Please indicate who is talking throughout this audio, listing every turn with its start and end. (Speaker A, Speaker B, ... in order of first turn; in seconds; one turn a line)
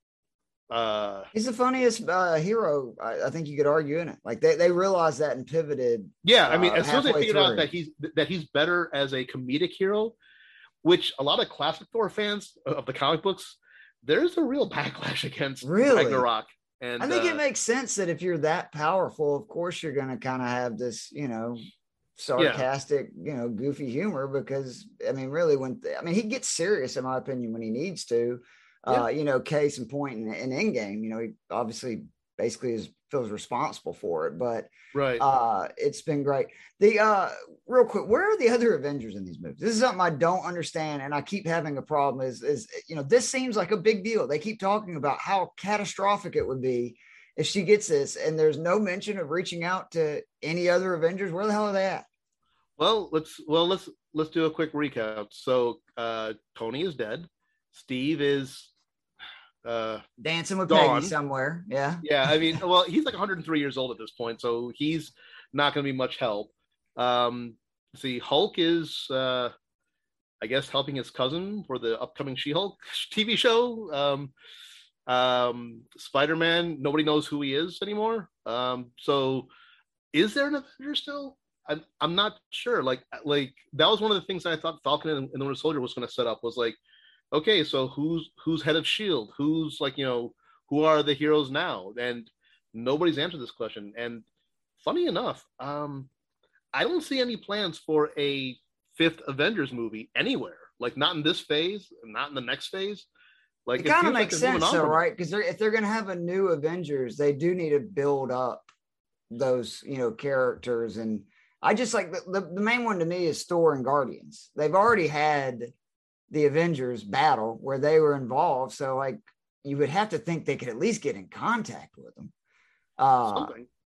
Speaker A: 0.7-1.3
Speaker B: 1.3-7.7
Speaker A: 6.2-10.2
Speaker A: 10.8-17.4
Speaker B: 15.6-16.3
Speaker B: 17.0-21.6
Speaker B: 22.2-52.0
Speaker A: 22.4-22.6
Speaker A: 34.9-35.2
Speaker A: 52.8-58.7
Speaker A: 59.6-60.0
Speaker B: 60.2-62.6
Speaker A: 60.7-61.1
Speaker A: 62.0-69.5
Speaker A: 70.4-74.3
Speaker A: 75.1-79.5
Speaker A: 80.1-86.8
Speaker A: 87.3-94.2
Speaker A: 94.8-96.1
Speaker A: 96.7-103.0
Speaker A: 103.7-105.0
Speaker B: 103.8-108.7
Speaker B: 109.3-115.7
Speaker B: 116.3-122.3
Speaker B: 123.0-123.5
Speaker A: 123.3-123.7